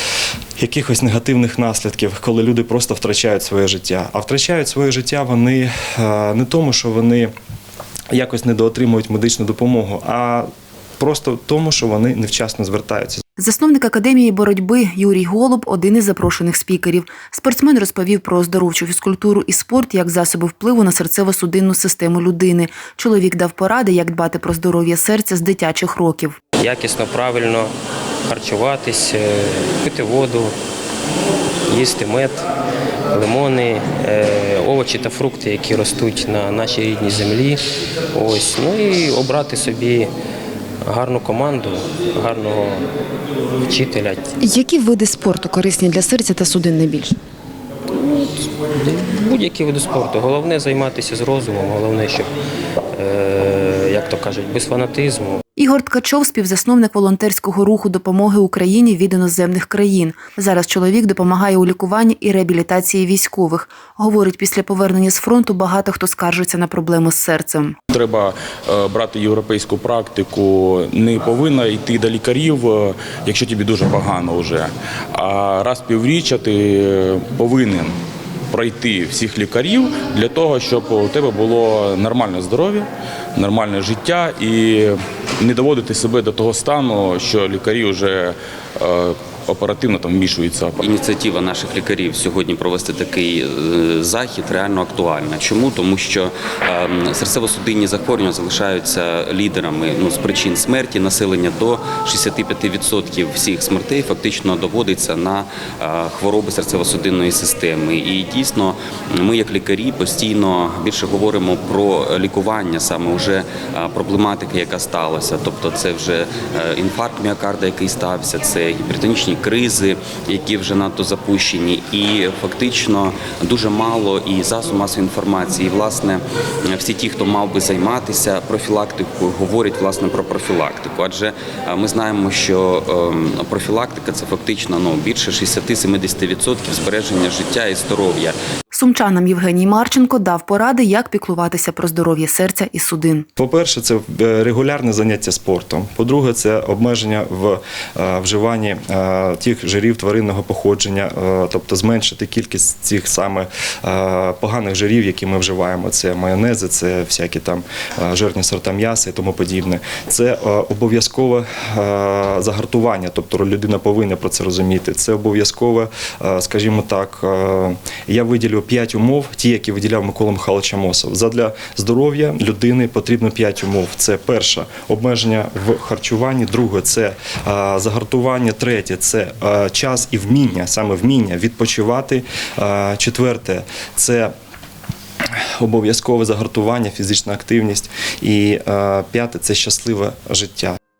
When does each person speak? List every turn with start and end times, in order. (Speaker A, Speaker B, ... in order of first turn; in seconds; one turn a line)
Speaker A: 0.6-7.3
Speaker A: 8.1-10.5
Speaker A: 11.0-13.2
Speaker B: 13.4-26.4
Speaker C: 26.6-27.7
Speaker C: 28.3-30.5
Speaker C: 31.7-32.5
Speaker C: 33.1-37.6
Speaker C: 38.1-40.1
Speaker C: 40.8-42.9
Speaker C: 43.6-44.4
Speaker B: 44.4-47.1
Speaker C: 47.9-52.3
Speaker C: 52.9-55.4
Speaker B: 55.6-67.8
Speaker D: 68.0-74.7
Speaker D: 75.2-77.9
Speaker D: 78.5-82.8
Speaker D: 83.4-90.7
Speaker E: 90.8-138.4
Speaker B: 138.7-143.2
Speaker A: 143.4-184.3
Speaker A: 185.6-190.8